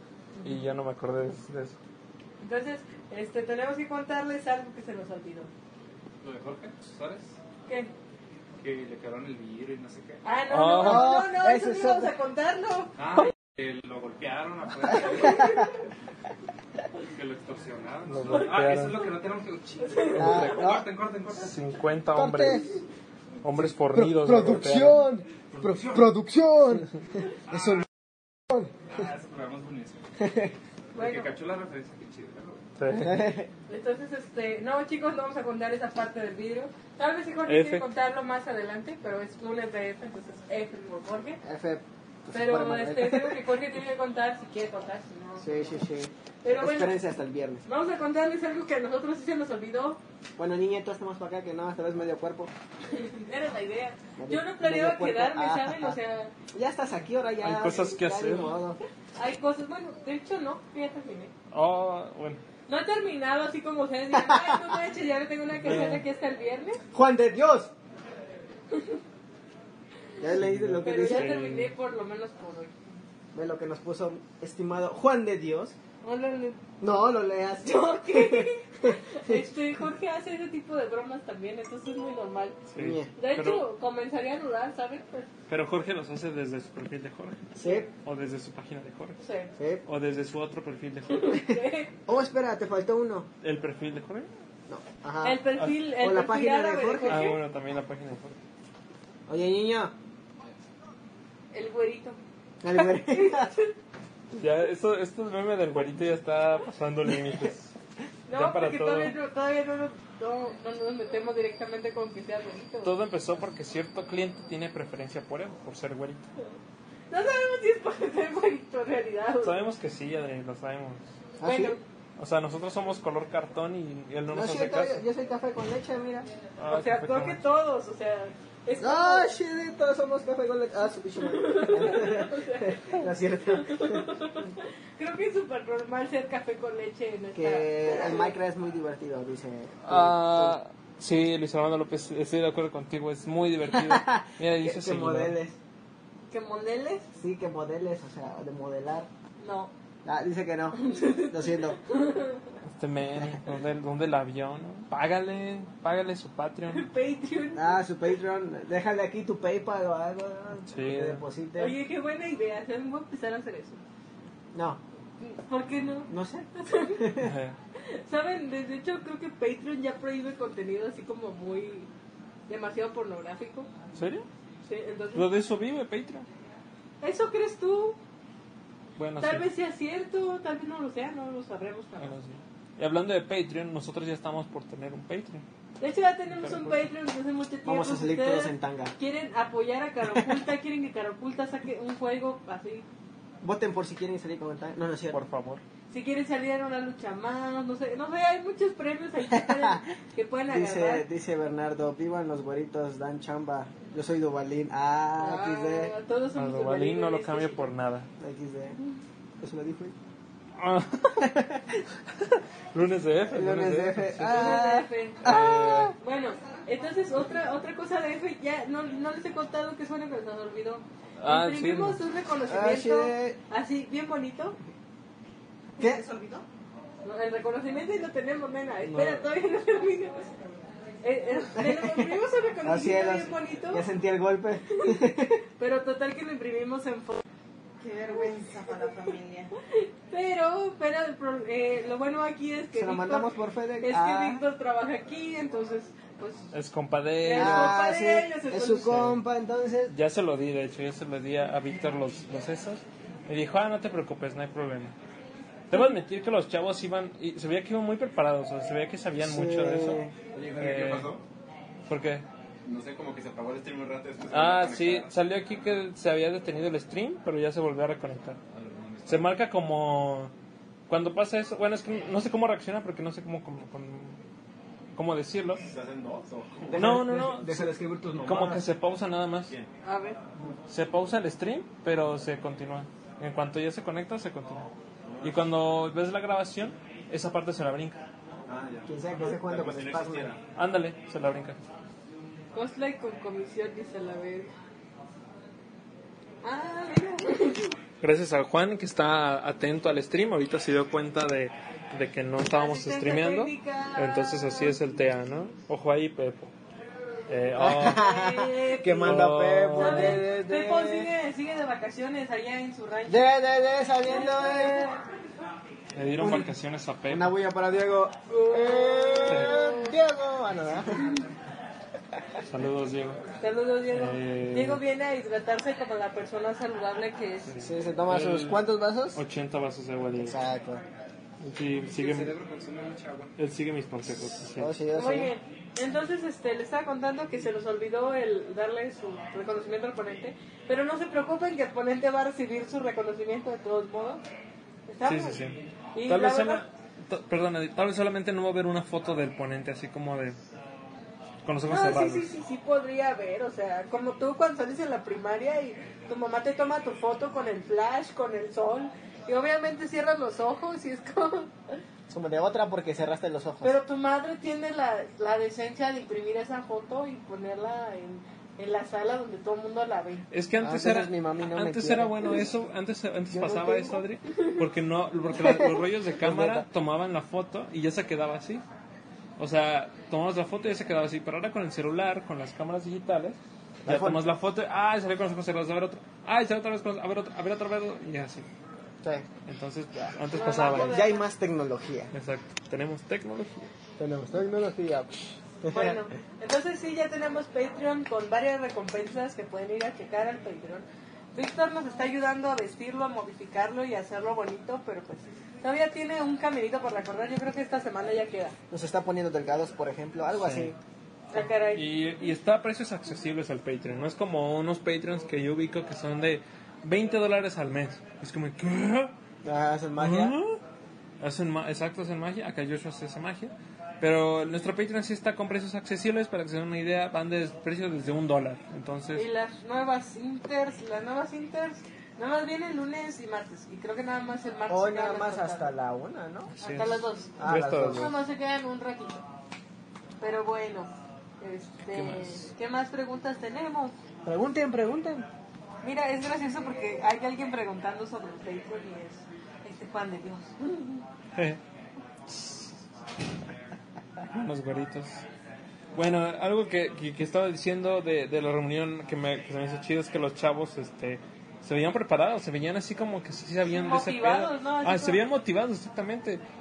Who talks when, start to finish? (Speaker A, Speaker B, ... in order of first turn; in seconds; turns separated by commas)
Speaker A: 0.4-0.6, Speaker B: 0.4-1.8, Speaker A: 2.4-5.5, Speaker C: 6.2-7.4, Speaker A: 7.7-7.9, Speaker C: 8.6-10.2, Speaker A: 10.2-13.3, Speaker B: 10.5-11.2, Speaker D: 10.8-12.1, Speaker C: 13.0-15.6, Speaker A: 14.9-15.8, Speaker C: 17.1-21.5, Speaker B: 18.1-19.1, Speaker A: 18.1-19.2, Speaker A: 19.8-20.7, Speaker D: 20.1-20.9, Speaker B: 20.2-20.7, Speaker B: 21.3-22.8, Speaker D: 22.1-22.8, Speaker B: 23.4-25.1, Speaker D: 23.5-26.9, Speaker C: 25.5-26.1, Speaker D: 27.5-27.9, Speaker C: 27.5-27.8, Speaker D: 28.5-28.7, Speaker C: 28.9-30.0, Speaker D: 30.2-30.5, Speaker A: 30.9-31.3, Speaker C: 30.9-32.6, Speaker B: 32.8-33.2, Speaker D: 32.9-33.5, Speaker A: 33.7-41.4, Speaker B: 37.5-37.9, Speaker D: 41.4-43.5, Speaker A: 42.3-45.8, Speaker D: 45.4-47.6, Speaker A: 46.4-47.0, Speaker A: 47.7-50.0, Speaker D: 50.4-52.5, Speaker A: 52.9-56.3, Speaker D: 54.2-56.0, Speaker D: 56.5-58.8, Speaker B: 57.4-58.6, Speaker A: 59.2-61.3, Speaker B: 61.5-62.4, Speaker A: 62.7-66.8, Speaker D: 64.1-64.7, Speaker B: 65.6-66.0, Speaker D: 66.9-67.7, Speaker A: 68.7-69.0, Speaker D: 70.2-71.5, Speaker B: 70.3-71.7, Speaker A: 70.8-72.8, Speaker D: 73.3-75.8, Speaker A: 76.0-76.6, Speaker D: 76.8-79.5, Speaker A: 77.6-82.6, Speaker B: 82.7-83.7, Speaker D: 82.8-83.1, Speaker A: 83.2-85.3, Speaker B: 85.5-89.2, Speaker D: 87.6-87.9, Speaker A: 89.2-89.5, Speaker D: 89.6-89.8, Speaker B: 89.9-91.4, Speaker A: 91.1-91.9, Speaker D: 91.4-93.3, Speaker B: 93.4-94.3, Speaker D: 94.7-97.3, Speaker A: 95.2-97.4, Speaker B: 97.1-98.4, Speaker D: 99.3-99.9, Speaker A: 101.5-102.2, Speaker D: 102.6-103.5, Speaker A: 102.7-103.7, Speaker B: 104.3-107.7, Speaker A: 108.3-112.9, Speaker B: 108.3-109.2, Speaker B: 112.8-116.3, Speaker A: 117.1-119.7, Speaker B: 119.4-121.0, Speaker D: 121.4-121.8, Speaker A: 121.4-121.8, Speaker B: 122.2-125.0, Speaker D: 124.3-126.3, Speaker B: 126.6-127.4, Speaker A: 126.7-129.4, Speaker D: 128.8-134.1, Speaker A: 131.2-138.3, Speaker D: 137.3-140.6, Speaker B: 139.8-145.4, Speaker D: 143.7-145.6, Speaker A: 146.3-147.1, Speaker D: 147.2-149.1, Speaker A: 149.4-149.7, Speaker D: 150.0-151.8, Speaker A: 150.8-152.5, Speaker B: 152.7-156.9, Speaker A: 156.7-157.9, Speaker D: 157.5-161.8, Speaker B: 160.7-161.2, Speaker A: 161.6-163.8, Speaker D: 164.5-164.8, Speaker A: 165.2-167.1, Speaker D: 166.1-167.3, Speaker B: 167.2-167.6, Speaker A: 167.8-171.9, Speaker A: 172.5-173.7, Speaker B: 173.9-174.3, Speaker A: 174.7-175.3, Speaker B: 175.1-176.3, Speaker A: 177.0-178.0, Speaker B: 179.0-179.5, Speaker A: 179.2-182.1, Speaker B: 182.0-185.4, Speaker A: 185.8-192.9, Speaker B: 186.3-186.9, Speaker D: 187.7-188.9, Speaker D: 193.4-195.2, Speaker B: 195.1-195.6, Speaker A: 195.9-201.1, Speaker D: 199.3-199.9, Speaker D: 200.5-205.9, Speaker A: 205.2-207.7, Speaker B: 206.3-208.1, Speaker D: 208.2-208.8, Speaker D: 209.4-210.0, Speaker B: 210.6-211.5, Speaker D: 211.2-211.8, Speaker B: 212.1-214.6, Speaker D: 213.3-215.9, Speaker A: 214.2-224.6, Speaker B: 215.2-215.9, Speaker B: 221.2-222.0, Speaker D: 222.5-223.4, Speaker D: 225.8-226.1, Speaker E: 225.8-226.4, Speaker A: 227.0-230.3, Speaker D: 228.9-229.3, Speaker A: 231.0-233.9, Speaker D: 231.6-235.4, Speaker A: 234.7-235.0, Speaker A: 235.6-237.2, Speaker E: 237.8-239.5, Speaker A: 238.1-246.5, Speaker D: 242.8-244.4, Speaker B: 246.5-247.8, Speaker A: 247.2-249.2, Speaker D: 247.3-249.9, Speaker B: 249.9-254.9, Speaker B: 255.7-261.1, Speaker D: 259.2-260.1, Speaker C: 260.3-261.2, Speaker B: 261.9-262.3, Speaker C: 262.6-265.1, Speaker B: 264.3-268.4, Speaker C: 268.5-269.3, Speaker B: 269.1-270.3, Speaker B: 270.9-274.2, Speaker B: 274.9-275.6, Speaker C: 275.6-276.8, Speaker B: 276.7-277.7, Speaker D: 276.7-278.7, Speaker B: 278.2-279.6, Speaker A: 279.8-280.2, Speaker B: 280.7-284.7, Speaker C: 285.1-285.4, Speaker B: 285.2-288.0, Speaker C: 288.5-290.4, Speaker D: 288.9-290.3, Speaker B: 290.5-291.6, Speaker A: 292.5-294.5, Speaker A: 296.4-297.8, Speaker B: 298.0-306.5, Speaker A: 302.5-304.8, Speaker B: 307.3-308.0, Speaker D: 307.6-311.1, Speaker A: 307.7-313.3, Speaker B: 309.0-310.3, Speaker D: 313.1-314.9, Speaker A: 314.0-315.0, Speaker B: 315.9-317.4, Speaker D: 316.2-316.5, Speaker D: 317.1-321.2, Speaker A: 318.3-320.0, Speaker B: 319.3-319.5, Speaker B: 322.4-323.2, Speaker A: 323.3-327.5, Speaker B: 323.9-324.8, Speaker B: 327.5-328.6, Speaker D: 327.6-329.2, Speaker B: 329.1-330.4, Speaker D: 330.2-330.8, Speaker B: 331.4-332.4, Speaker C: 331.9-333.3, Speaker B: 333.4-334.7, Speaker D: 334.6-335.3, Speaker A: 334.9-344.2, Speaker A: 344.9-345.4, Speaker B: 345.1-350.4, Speaker A: 345.9-346.6, Speaker B: 351.4-352.3, Speaker A: 351.7-361.8, Speaker D: 362.1-363.7, Speaker A: 363.6-370.3, Speaker B: 370.3-378.6, Speaker D: 370.6-372.4, Speaker D: 373.3-374.0, Speaker D: 375.4-376.7, Speaker B: 379.4-388.5, Speaker D: 383.8-384.2, Speaker B: 389.5-391.0, Speaker A: 390.3-391.2, Speaker D: 390.4-392.1, Speaker B: 392.1-393.7, Speaker D: 394.0-396.0, Speaker A: 395.7-408.6, Speaker D: 408.7-410.8, Speaker B: 410.3-410.7, Speaker A: 411.3-411.9, Speaker B: 411.3-419.1, Speaker D: 419.4-420.4, Speaker B: 420.0-420.6, Speaker B: 421.2-429.3, Speaker A: 429.1-435.7, Speaker D: 434.7-436.5, Speaker B: 436.6-438.2, Speaker A: 436.6-439.2, Speaker D: 437.4-438.1, Speaker A: 440.2-440.9, Speaker A: 441.4-443.9, Speaker B: 441.9-442.5, Speaker D: 444.3-445.3, Speaker A: 445.8-451.0, Speaker B: 451.4-451.6, Speaker B: 452.3-452.8, Speaker B: 454.2-455.2, Speaker B: 455.9-466.4, Speaker A: 463.6-465.2